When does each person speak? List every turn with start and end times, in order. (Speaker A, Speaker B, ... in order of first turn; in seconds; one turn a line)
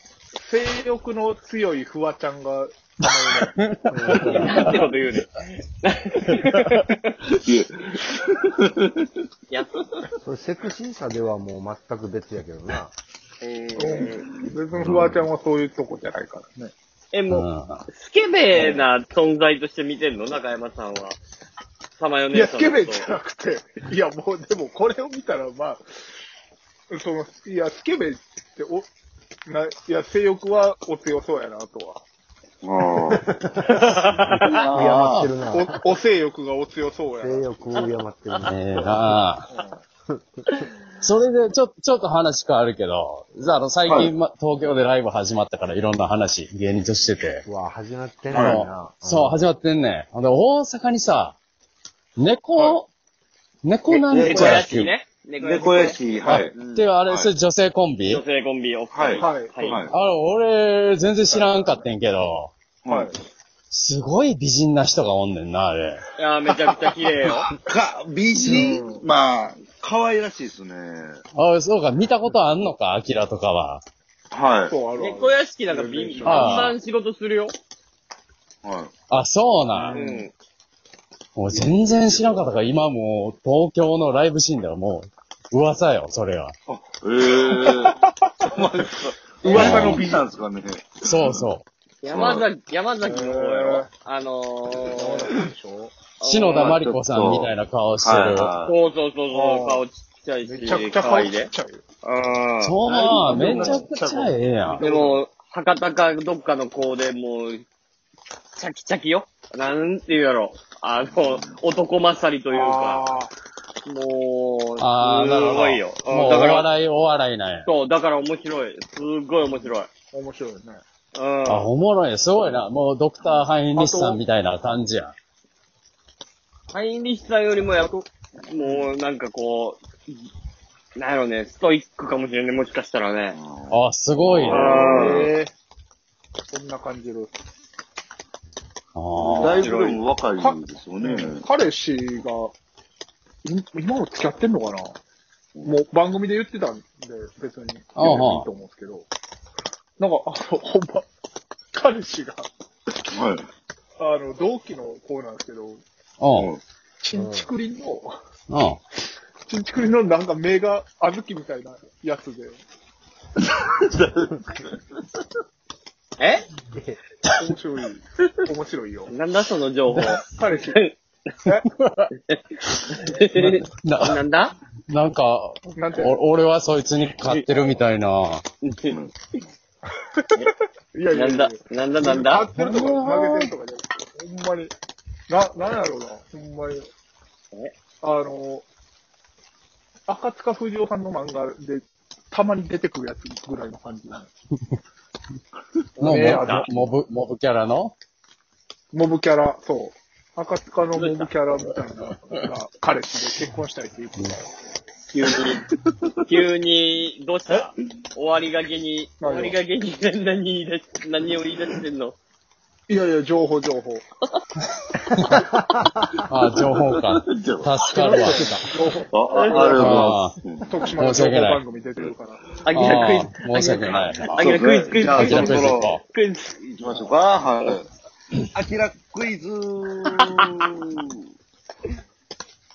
Speaker A: 0.4-3.5
Speaker B: 3.6-4.9
Speaker C: 3.9-4.7
Speaker D: 4.2-7.1
Speaker E: 7.3-9.2
Speaker C: 10.2-12.9
Speaker D: 13.4-14.3
Speaker A: 13.8-16.7
Speaker C: 14.7-15.1
Speaker E: 14.8-15.2
Speaker D: 17.1-21.2
Speaker B: 17.3-17.8
Speaker D: 22.0-23.1
Speaker A: 22.3-26.0
Speaker A: 26.9-28.9
Speaker A: 29.5-32.0
Speaker E: 32.6-33.2
Speaker C: 33.2-34.0
Speaker D: 33.7-34.6
Speaker B: 34.3-35.3
Speaker E: 34.5-35.2
Speaker C: 34.7-35.8
Speaker A: 35.5-37.9
Speaker C: 37.2-38.6
Speaker B: 38.4-39.5
Speaker A: 39.5-39.8
Speaker C: 40.1-40.4
Speaker B: 41.0-47.4
Speaker E: 43.9-44.1
Speaker C: 47.5-49.5
Speaker E: 48.3-48.6
Speaker B: 48.3-51.4
Speaker B: 52.2-52.9
Speaker B: 53.6-54.9
Speaker E: 54.1-54.7
Speaker A: 54.1-54.6
Speaker D: 54.2-56.0
Speaker E: 55.4-56.5
Speaker B: 56.3-58.2
Speaker D: 56.5-56.9
Speaker E: 57.1-57.3
Speaker D: 58.0-59.8
Speaker E: 58.9-59.9
Speaker A: 59.2-59.9
Speaker B: 59.9-62.5
Speaker A: 61.3-61.8
Speaker E: 62.8-63.1
Speaker A: 62.9-63.1
Speaker B: 63.7-66.0
Speaker D: 66.2-67.5
Speaker E: 67.5-71.2
Speaker A: 68.4-69.0
Speaker B: 71.3-73.8
Speaker E: 74.3-74.8
Speaker A: 74.7-76.6
Speaker D: 75.0-77.5
Speaker B: 76.2-76.8
Speaker E: 78.6-78.9
Speaker B: 79.1-80.0
Speaker A: 79.7-80.2
Speaker D: 79.9-80.3
Speaker B: 81.3-86.5
Speaker E: 86.7-87.9
Speaker A: 87.3-88.5
Speaker E: 88.5-91.4
Speaker A: 89.4-90.2
Speaker B: 89.5-90.0
Speaker B: 91.0-91.6
Speaker D: 92.0-95.3
Speaker E: 92.1-92.5
Speaker A: 93.0-93.9
Speaker A: 94.9-95.9
Speaker D: 96.2-96.8
Speaker B: 96.2-98.5
Speaker E: 96.6-98.8
Speaker D: 98.6-101.5
Speaker A: 99.3-99.8
Speaker A: 100.4-101.8
Speaker D: 102.0-107.6
Speaker B: 102.6-104.8
Speaker E: 103.3-103.6
Speaker A: 103.3-103.8
Speaker A: 104.7-105.2
Speaker D: 108.5-113.0
Speaker E: 111.0-111.5
Speaker A: 112.5-113.3
Speaker D: 113.8-116.7
Speaker B: 114.8-117.7
Speaker D: 117.6-119.9
Speaker A: 120.1-120.8
Speaker D: 121.1-121.7
Speaker B: 121.5-125.1
Speaker A: 123.7-124.2
Speaker D: 126.7-128.0
Speaker D: 128.5-129.8
Speaker A: 128.6-128.9
Speaker D: 130.9-133.4
Speaker E: 133.3-135.3
Speaker B: 133.7-134.7
Speaker D: 134.5-135.3
Speaker A: 134.5-135.5
Speaker A: 136.5-137.3
Speaker B: 138.9-139.7
Speaker E: 139.2-141.4
Speaker D: 139.2-140.0
Speaker A: 140.4-142.5
Speaker A: 143.4-144.9
Speaker E: 145.6-145.8
Speaker A: 145.6-149.1
Speaker B: 147.9-148.5
Speaker A: 150.0-151.1
Speaker A: 151.7-152.5
Speaker E: 153.1-153.5
Speaker A: 154.0-155.8
Speaker B: 156.2-156.5
Speaker E: 156.3-156.6
Speaker A: 157.0-158.2
Speaker C: 157.1-157.5
Speaker B: 158.5-158.8
Speaker A: 159.5-162.6
Speaker E: 163.4-164.8
Speaker D: 166.2-166.4
Speaker A: 167.3-169.1
Speaker D: 169.1-170.9
Speaker B: 169.9-170.2
Speaker A: 170.2-170.8
Speaker B: 171.5-172.1
Speaker D: 172.2-174.5
Speaker B: 173.3-174.2
Speaker B: 174.9-178.4
Speaker A: 175.8-176.2
Speaker D: 177.2-177.6
Speaker D: 178.6-179.0
Speaker A: 180.9-184.7
Speaker D: 181.1-182.5
Speaker B: 182.5-183.5
Speaker A: 185.3-186.9
Speaker A: 188.0-188.6
Speaker A: 190.1-194.3
Speaker B: 196.0-197.9
Speaker A: 196.0-196.7
Speaker A: 198.9-204.4
Speaker D: 200.9-201.3
Speaker D: 205.1-205.6
Speaker D: 206.2-212.2
Speaker A: 209.2-209.6
Speaker A: 212.9-214.0
Speaker C: 215.1-216.1
Speaker B: 216.3-218.6
Speaker E: 216.5-217.8
Speaker C: 217.9-219.0
Speaker A: 218.2-223.1
Speaker E: 219.1-220.9
Speaker D: 219.3-219.7
Speaker B: 219.7-220.3
Speaker B: 220.9-221.6
Speaker D: 222.6-226.5
Speaker B: 222.7-224.3
Speaker E: 224.3-226.0
Speaker B: 225.1-226.0
Speaker E: 226.6-227.8
Speaker E: 228.5-231.2